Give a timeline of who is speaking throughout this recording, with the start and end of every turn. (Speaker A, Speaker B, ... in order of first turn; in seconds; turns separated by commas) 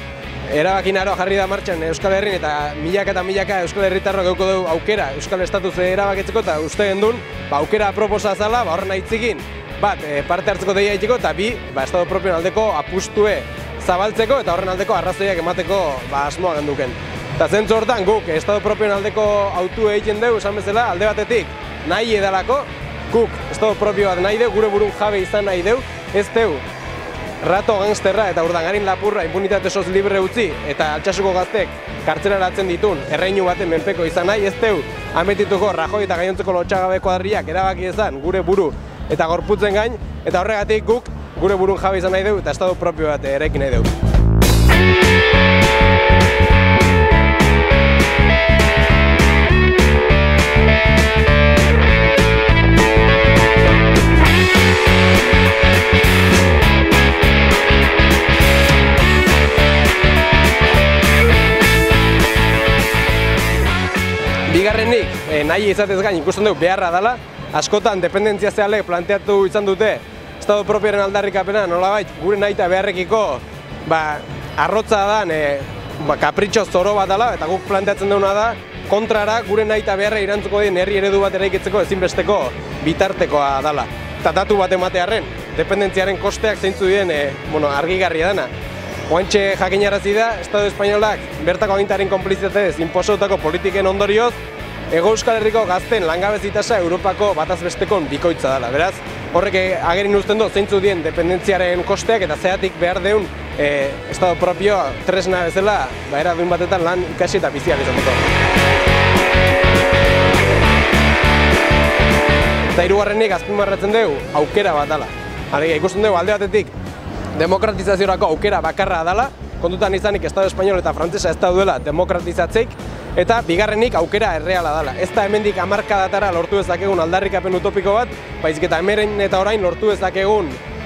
Speaker A: 0.5-26.6, Speaker A: 27.4-43.9, Speaker A: 64.5-88.5, Speaker A: 89.1-94.3, Speaker A: 94.9-108.3, Speaker A: 112.7-116.7, Speaker A: 117.3-130.6